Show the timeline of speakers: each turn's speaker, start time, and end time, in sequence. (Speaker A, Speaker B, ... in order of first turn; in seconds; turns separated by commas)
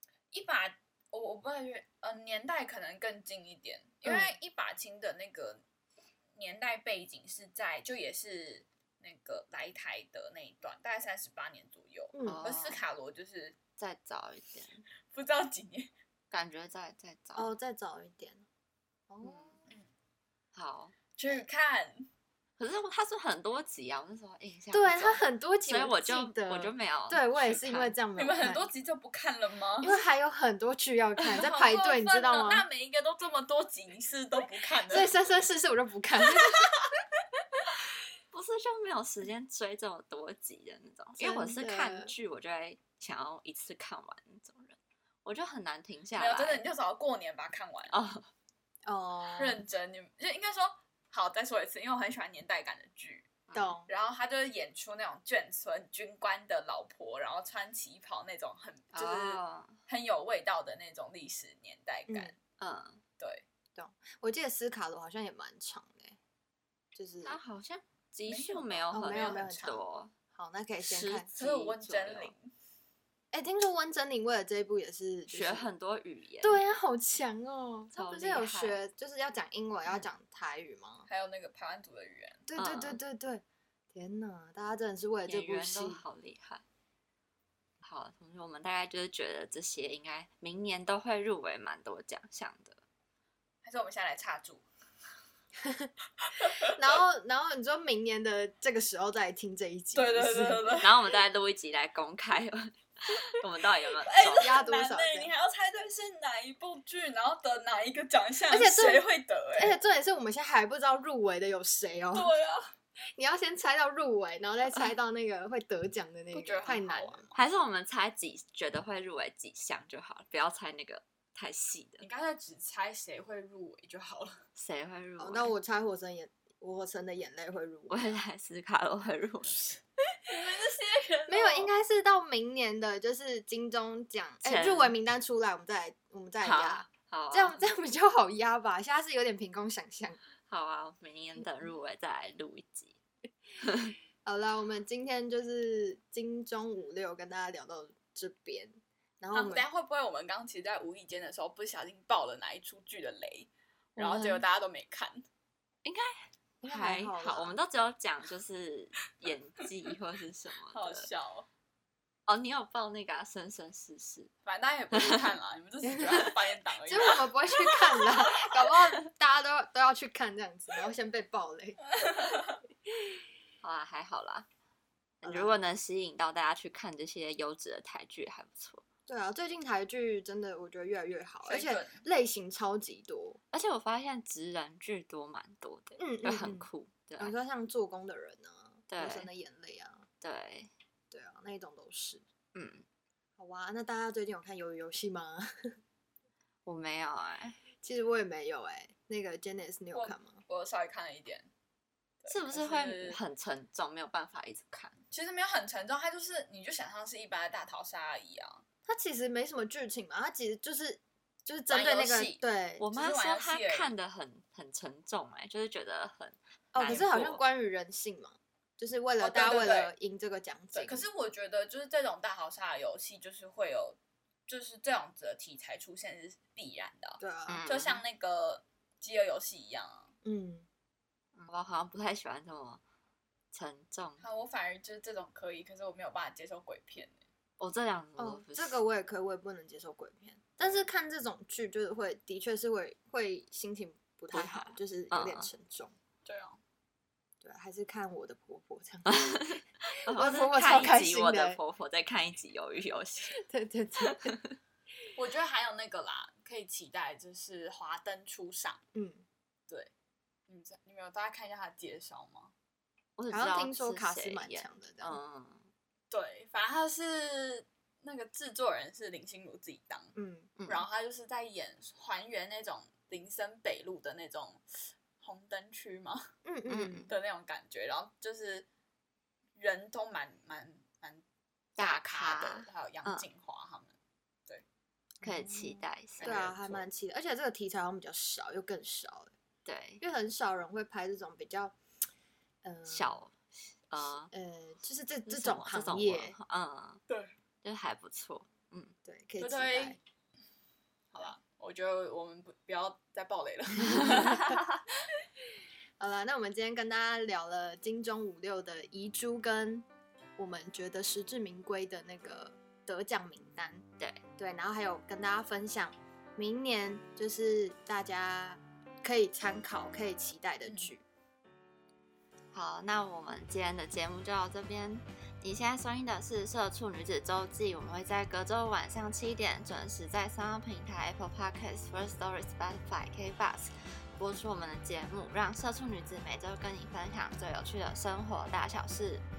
Speaker A: 0.3-5.6, Speaker B: 4.0-4.3, Speaker A: 6.4-13.6, Speaker B: 12.1-12.4, Speaker C: 12.2-12.8, Speaker C: 13.8-14.8, Speaker A: 15.1-15.9, Speaker C: 16.3-17.5, Speaker B: 17.4-18.4, Speaker B: 19.1-19.6, Speaker C: 19.2-19.5, Speaker C: 20.5-20.9, Speaker A: 21.2-22.1, Speaker C: 22.6-27.9, Speaker B: 24.7-28.7, Speaker A: 28.2-29.9, Speaker B: 29.8-32.7, Speaker A: 31.2-35.1, Speaker B: 34.9-36.7, Speaker A: 36.3-37.0, Speaker C: 38.3-46.6, Speaker B: 41.2-42.1, Speaker A: 46.2-47.9, Speaker C: 47.9-48.3, Speaker B: 48.9-49.6, Speaker A: 49.4-62.4, Speaker C: 53.5-53.8, Speaker B: 53.5-53.9, Speaker C: 58.9-59.8, Speaker B: 62.1-62.4, Speaker C: 62.6-63.0, Speaker A: 63.2-63.5, Speaker B: 63.8-66.2, Speaker B: 66.9-67.4, Speaker C: 67.2-70.1, Speaker A: 68.3-69.6, Speaker B: 68.9-69.8, Speaker B: 70.3-71.3, Speaker C: 70.8-72.3, Speaker A: 71.4-72.5, Speaker B: 73.3-75.7, Speaker C: 75.3-76.7, Speaker B: 76.4-81.1, Speaker C: 77.9-78.8, Speaker A: 81.1-82.5, Speaker B: 82.5-83.4, Speaker C: 82.6-83.0, Speaker B: 83.9-86.0, Speaker C: 85.3-86.6, Speaker C: 87.8-92.8, Speaker A: 93.6-94.6, Speaker B: 95.6-95.9, Speaker A: 96.2-96.9, Speaker B: 96.7-100.8, Speaker A: 100.0-100.9, Speaker C: 100.8-104.5, Speaker A: 104.0-109.8, Speaker B: 104.3-105.3, Speaker B: 108.5-112.3, Speaker A: 112.1-112.7, Speaker B: 113.2-117.2, Speaker A: 116.3-117.4, Speaker C: 117.3-122.0, Speaker A: 122.0-124.4, Speaker C: 124.6-125.5, Speaker B: 125.2-128.2, Speaker C: 127.9-129.7, Speaker A: 130.3-131.7, Speaker B: 131.3-140.2, Speaker C: 134.4-134.9, Speaker C: 136.4-137.7, Speaker C: 140.5-143.0, Speaker C: 143.6-143.9, Speaker B: 144.2-149.7, Speaker A: 149.3-155.3, Speaker B: 154.0-154.4, Speaker C: 155.8-161.1, Speaker B: 156.6-157.6, Speaker A: 160.7-161.5, Speaker C: 162.3-164.3, Speaker A: 164.5-167.9, Speaker B: 165.8-171.8, Speaker A: 171.9-172.6, Speaker C: 173.6-174.5, Speaker C: 175.2-178.8, Speaker B: 175.2-175.6, Speaker B: 179.1-183.4, Speaker A: 181.5-182.0, Speaker C: 183.5-187.3, Speaker B: 186.0-186.7, Speaker B: 187.2-190.1, Speaker C: 188.9-189.3, Speaker C: 190.2-190.7, Speaker B: 191.1-192.2, Speaker C: 192.5-192.8, Speaker B: 193.4-195.8, Speaker C: 196.7-197.6, Speaker B: 197.8-200.4, Speaker A: 199.9-201.5, Speaker A: 202.2-203.2, Speaker C: 202.3-205.0, Speaker A: 205.1-208.6, Speaker B: 208.9-212.8, Speaker A: 211.7-213.9, Speaker C: 212.8-217.4, Speaker B: 216.7-221.1, Speaker A: 216.8-217.1, Speaker A: 219.2-219.9, Speaker A: 220.7-230.1, Speaker B: 227.2-227.7, Speaker C: 227.5-228.0, Speaker B: 230.2-230.7, Speaker C: 231.4-232.8, Speaker C: 233.5-234.2, Speaker A: 234.2-237.1, Speaker C: 237.6-238.8, Speaker B: 238.2-245.9, Speaker C: 244.3-245.5, Speaker A: 246.2-246.6, Speaker B: 247.4-251.6, Speaker C: 249.1-253.4, Speaker B: 253.4-254.4, Speaker C: 254.1-254.6, Speaker A: 255.1-258.8, Speaker B: 258.9-259.2, Speaker A: 260.5-262.5, Speaker C: 263.2-265.7, Speaker B: 263.3-265.2, Speaker A: 266.1-270.1, Speaker B: 270.2-270.5, Speaker C: 270.6-270.9, Speaker A: 270.7-274.6, Speaker A: 275.2-276.3, Speaker B: 276.4-277.1, Speaker C: 276.7-277.1, Speaker A: 277.1-278.7, Speaker A: 279.6-281.2, Speaker A: 281.8-283.9, Speaker C: 281.8-283.3, Speaker C: 285.2-286.5, Speaker B: 285.2-289.3, Speaker A: 286.2-286.9, Speaker C: 289.6-290.0, Speaker B: 290.0-291.8, Speaker B: 292.6-293.1, Speaker C: 292.9-294.3, Speaker B: 294.3-296.4, Speaker C: 295.3-297.0, Speaker C: 297.6-299.0, Speaker B: 299.1-300.0, Speaker A: 299.4-300.0, Speaker A: 301.1-304.6, Speaker B: 306.0-309.9, Speaker B: 310.4-313.8, Speaker B: 314.4-321.0, Speaker C: 322.5-339.2